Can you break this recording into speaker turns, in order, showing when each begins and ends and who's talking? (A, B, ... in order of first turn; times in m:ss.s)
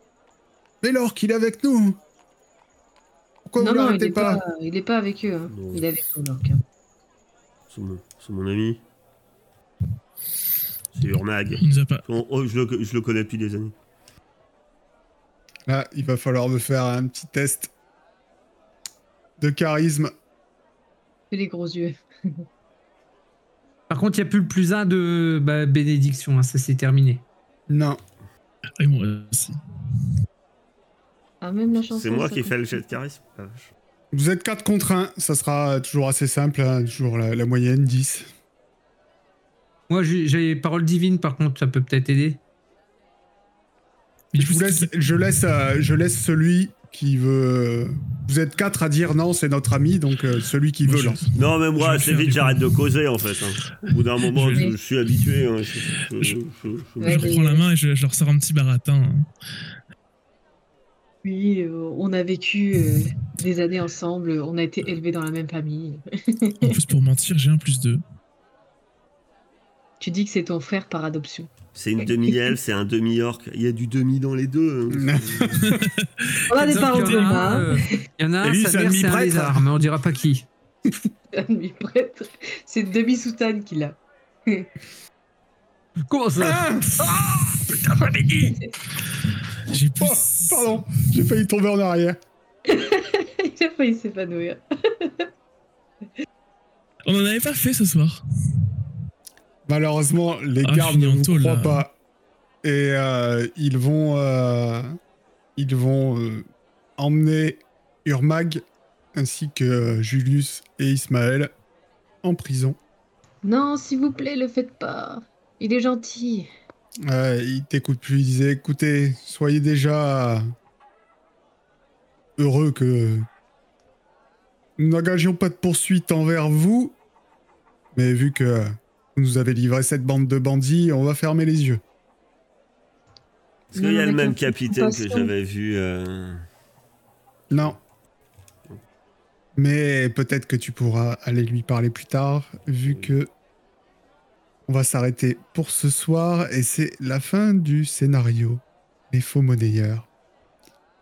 0:00.8-0:02.0 A
0:03.4-0:04.4 A
0:03.6-0:06.6 B
0:05.5-0:05.8 C
0:07.7-0:08.8 C
0:10.9-0:13.7 C
0:11.6-0:12.0 D
0:15.7-0:17.7 A
0:19.4-0:20.1 A
0:21.3-0:22.4 B
0:23.9-0:27.2 E
0:27.7-0:28.0 A
0:28.8-0:29.6 D
0:31.4-0:32.8 B
0:31.8-0:33.7 C
0:34.1-0:38.3 A
0:39.9-0:42.4 E
0:44.3-0:45.0 D
0:44.4-0:51.2 A
0:50.8-0:52.8 D
0:51.4-0:57.3 C
0:54.3-0:54.7 D
0:57.0-0:57.7 B
0:57.0-0:59.3 D
1:01.2-1:06.8 B
1:06.6-1:08.0 D
1:10.0-1:11.5 B
1:11.8-1:15.7 C
1:14.9-1:15.9 A
1:15.6-1:17.4 D
1:16.5-1:17.9 B
1:16.5-1:20.5 E
1:18.4-1:19.7 A
1:21.3-1:24.7 B
1:26.1-1:28.7 E
1:26.4-1:27.2 A
1:29.6-1:30.9 D
1:30.0-1:32.2 A
1:32.7-1:35.3 B
1:37.1-1:38.2 D
1:39.7-1:42.0 A
1:40.6-1:41.8 D
1:42.6-1:45.0 A
1:45.6-1:46.4 A
1:47.0-1:48.6 A
1:49.2-1:51.5 A
1:52.2-1:52.8 A
1:53.4-1:56.5 B
1:57.0-2:00.4 A
2:02.4-2:03.3 A
2:04.8-2:07.0 A
2:07.9-2:11.8 A
2:13.7-2:16.4 C
2:13.8-2:15.3 B
2:17.5-2:17.8 A
2:17.5-2:17.8 C
2:19.6-2:23.3 A
2:22.9-2:23.1 C
2:24.7-2:30.1 A